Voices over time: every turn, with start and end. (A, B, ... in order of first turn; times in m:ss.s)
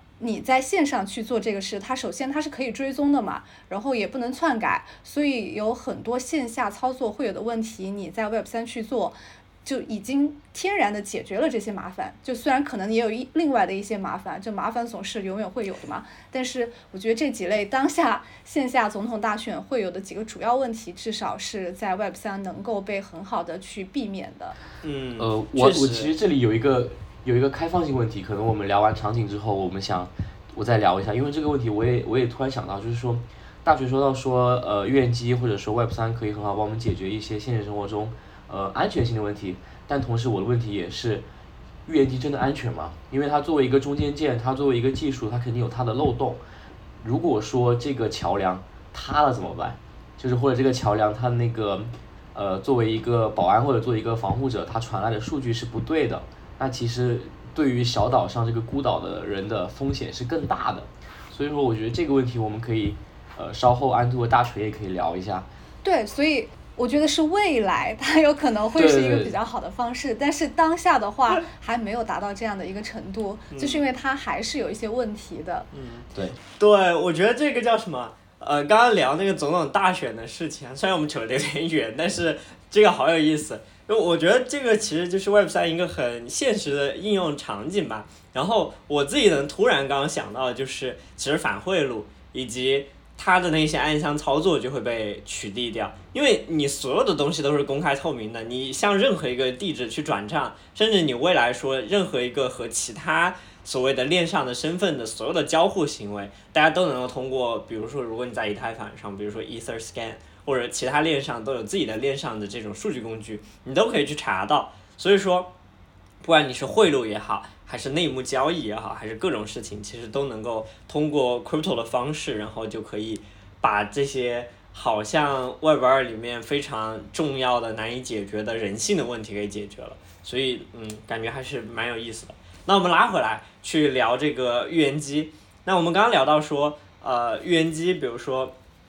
0:00.2-0:24.6 A
0:24.8-0:26.1 B
0:25.2-0:41.2 C
0:41.8-0:46.4 C
0:47.0-1:05.5 C
1:05.8-1:15.7 A
1:08.8-1:09.4 C
1:13.5-1:13.8 B
1:15.7-1:55.5 B
1:56.2-2:18.5 B